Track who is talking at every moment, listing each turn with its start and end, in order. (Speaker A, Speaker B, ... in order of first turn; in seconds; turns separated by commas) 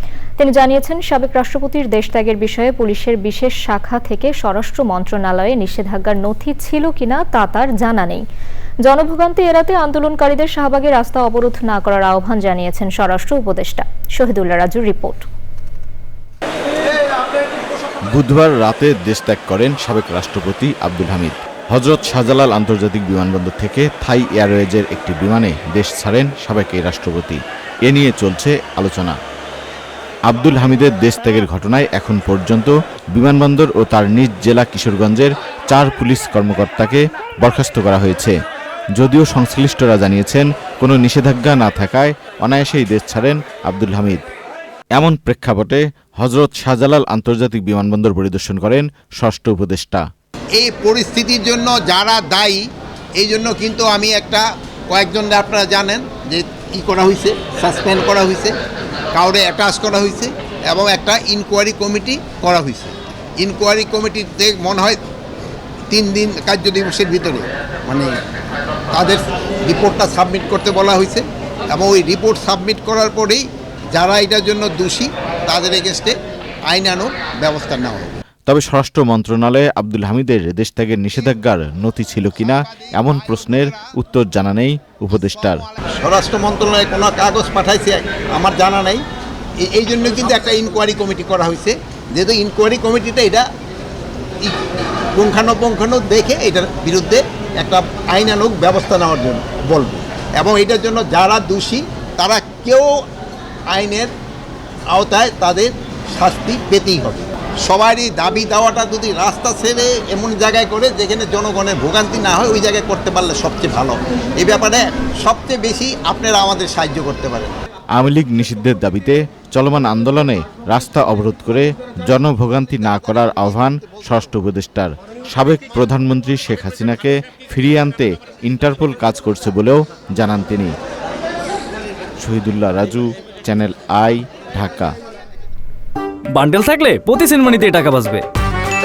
Speaker A: 0.4-8.2, Speaker A: 8.8-15.2, Speaker B: 18.1-29.1, Speaker B: 30.3-38.4, Speaker B: 39.0-44.2, Speaker B: 45.0-50.0, Speaker C: 50.6-52.6, Speaker C: 53.2-58.5, Speaker C: 59.1-65.0, Speaker C: 65.9-68.1, Speaker C: 68.9-73.4, Speaker C: 74.0-76.1, Speaker C: 76.7-78.1, Speaker B: 78.5-85.7, Speaker C: 86.0-89.0, Speaker C: 89.6-93.4, Speaker C: 95.1-102.9, Speaker C: 103.7-104.1, Speaker C: 104.9-117.5, Speaker B: 118.0-130.7, Speaker B: 132.2-134.9, Speaker D: 136.3-138.2